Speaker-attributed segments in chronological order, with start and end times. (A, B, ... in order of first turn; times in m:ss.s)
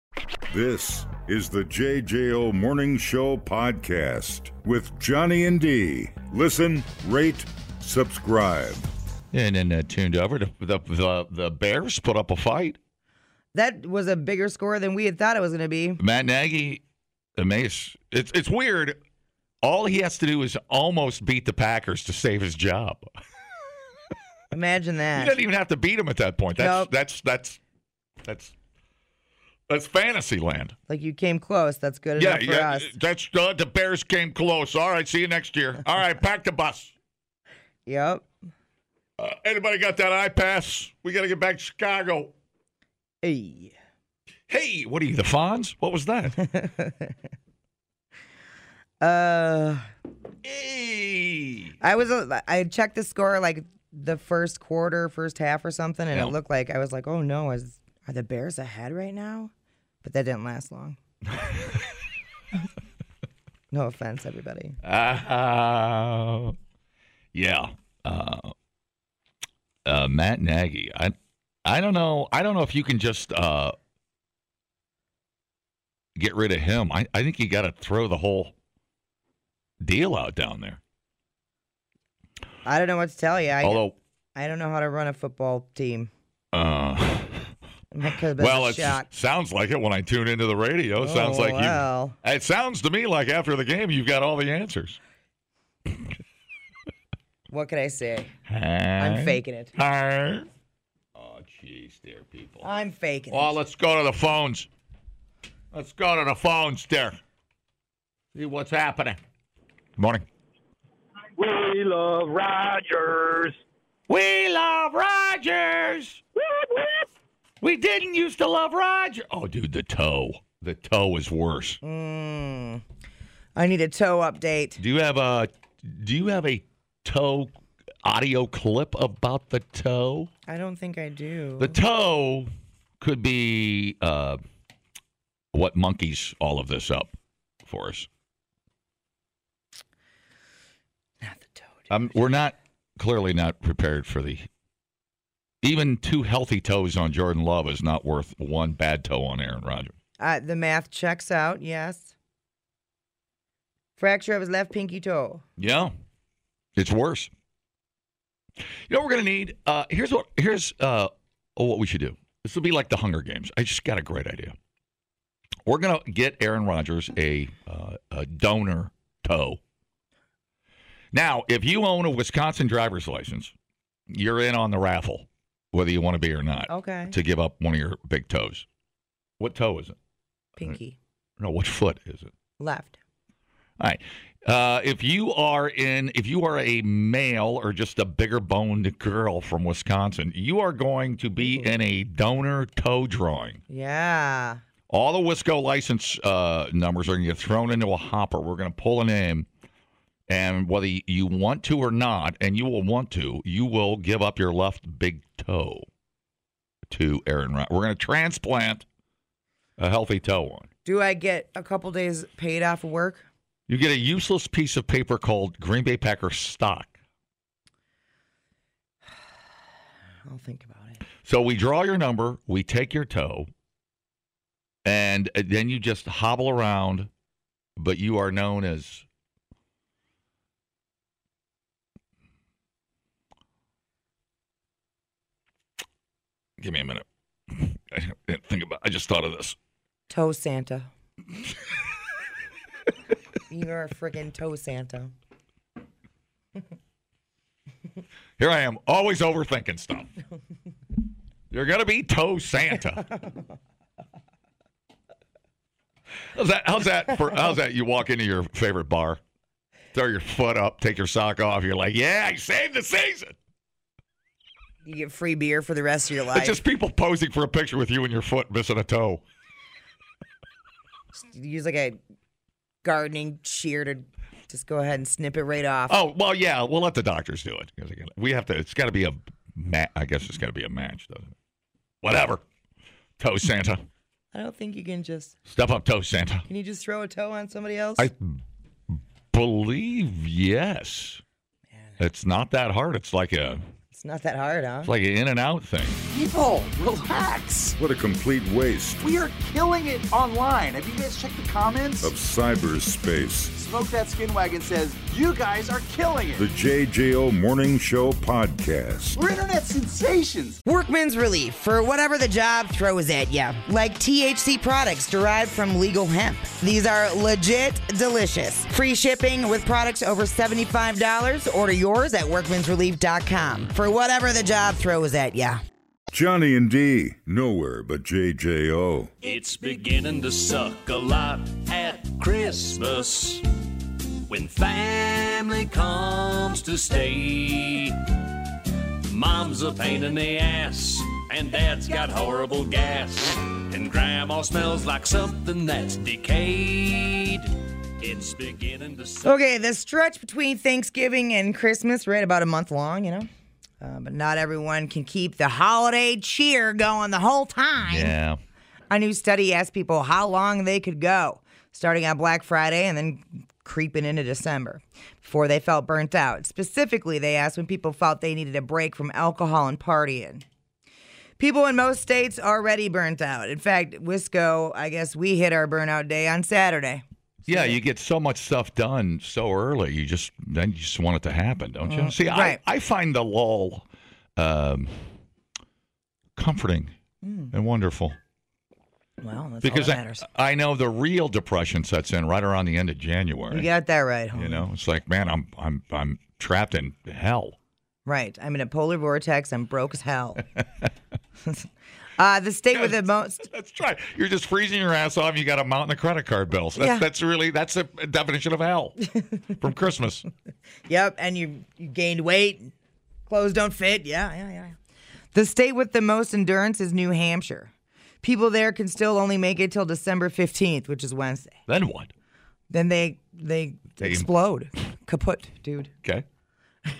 0:00.5-0:08.9 A
0:09.3-0:12.8 B
0:13.5-0:16.0 C
0:16.0-0:16.8 B
0:17.4-0:19.0 B
0:19.6-0:23.0 B
0:24.5-0:25.3 C
0:25.2-0:27.6 B
0:26.6-0:26.9 C
0:28.2-0:28.5 B
0:29.7-0:30.8 B
0:30.9-0:32.9 C
0:32.2-0:36.9 B
0:37.9-0:38.2 C
0:39.2-0:42.3 B
0:43.2-0:43.7 C
0:44.5-0:46.4 B
0:46.4-0:47.1 C
0:49.0-0:49.9 C
0:50.4-0:51.7 B
0:51.8-0:59.5 C
1:00.0-1:01.0 C
1:01.3-1:01.9 B
1:03.7-1:04.8 C
1:04.8-1:06.6 B
1:07.3-1:08.5 B
1:09.8-1:13.8 B
1:16.2-1:18.5 B
1:19.8-1:20.8 B
1:22.6-1:23.8 C
1:23.6-1:23.9 B
1:24.3-1:26.1 C
1:26.5-1:27.5 B
1:27.9-1:29.1 C
1:28.4-1:35.0 B
1:31.0-1:32.2 C
1:37.5-1:38.3 C
1:38.4-1:40.5 B
1:39.0-1:39.7 C
1:41.2-1:42.6 B
1:42.6-1:43.5 C
1:43.3-1:44.7 B
1:45.7-1:47.2 B
1:48.3-1:49.2 B
1:50.0-1:50.2 B
1:51.4-1:53.5 D
1:54.1-1:56.2 B
1:56.4-1:57.0 D
1:57.6-2:01.8 B
2:01.8-2:02.8 C
2:03.6-2:04.8 C
2:04.8-2:10.3 B
2:10.5-2:11.8 C
2:11.6-2:12.5 B
2:13.0-2:14.4 B
2:15.5-2:17.1 B
2:17.6-2:18.1 B
2:21.2-2:21.7 C
2:21.9-2:24.5 B
2:25.6-2:29.9 B
2:30.2-2:32.1 C
2:34.0-2:35.4 C
2:35.6-2:35.9 B
2:36.8-2:37.3 B
2:38.9-2:44.5 B
2:45.6-2:49.6 B
2:51.1-2:53.5 B
2:54.1-2:58.6 B
2:56.7-2:57.1 C
2:59.4-3:00.0 B
3:00.6-3:01.0 C
3:01.4-3:02.3 B
3:02.6-3:03.0 C
3:03.8-3:13.6 B
3:11.4-3:11.7 C
3:13.7-3:14.6 C
3:14.9-3:19.5 B
3:20.3-3:25.8 B
3:26.9-3:28.8 B
3:29.8-3:30.7 B
3:30.8-3:33.2 C
3:33.7-3:36.9 B
3:40.2-3:41.0 C
3:41.2-3:43.5 B
3:44.8-3:47.1 B
3:47.8-3:49.0 B
3:56.6-3:59.6 B
4:00.1-4:00.9 C
4:03.5-4:05.1 C
4:08.4-4:10.1 B
4:11.5-4:13.1 B
4:16.3-4:19.2 B
4:19.9-4:23.3 B
4:24.8-4:26.6 C
4:26.3-4:29.2 B
4:31.1-4:32.0 C
4:32.8-4:36.0 C
4:35.9-4:41.3 B
4:42.0-4:42.4 B
4:43.2-4:43.8 B
4:44.3-4:45.3 C
4:45.5-4:46.4 B
4:46.5-4:48.1 C
4:48.0-4:48.4 B
4:48.9-4:51.2 B
4:52.0-4:53.6 B
4:53.9-4:54.9 C
4:54.8-4:56.0 B
4:56.1-4:57.8 E
4:57.8-4:59.0 A
4:59.0-5:02.1 E
5:02.0-5:03.5 A
5:03.5-5:06.5 E
5:06.4-5:09.2 A
5:09.2-5:10.6 E
5:10.6-5:25.6 C
5:26.1-5:29.1 A
5:29.2-5:33.4 F
5:34.3-5:38.0 F
5:39.0-5:49.3 F
5:49.2-5:53.3 C
5:53.8-5:58.1 C
5:57.8-5:58.4 B
5:58.9-6:10.4 C
6:11.4-6:17.8 C
6:17.4-6:23.8 B
6:21.8-6:22.6 C
6:24.4-6:25.1 B
6:26.4-6:26.9 B
6:27.2-6:27.5 C
6:27.5-6:28.2 B
6:29.2-6:30.2 C
6:29.6-6:33.7 B
6:33.5-6:34.6 C
6:34.3-6:37.6 B
6:38.0-6:40.4 C
6:42.2-6:43.5 C
6:42.7-6:49.0 B
6:46.8-6:47.1 C
6:49.6-6:50.2 B
6:50.9-6:52.7 C
6:53.3-6:54.8 C
6:55.3-6:57.7 C
6:58.2-7:01.5 C
7:01.7-7:02.1 B
7:02.7-7:05.9 C
7:04.0-7:04.3 B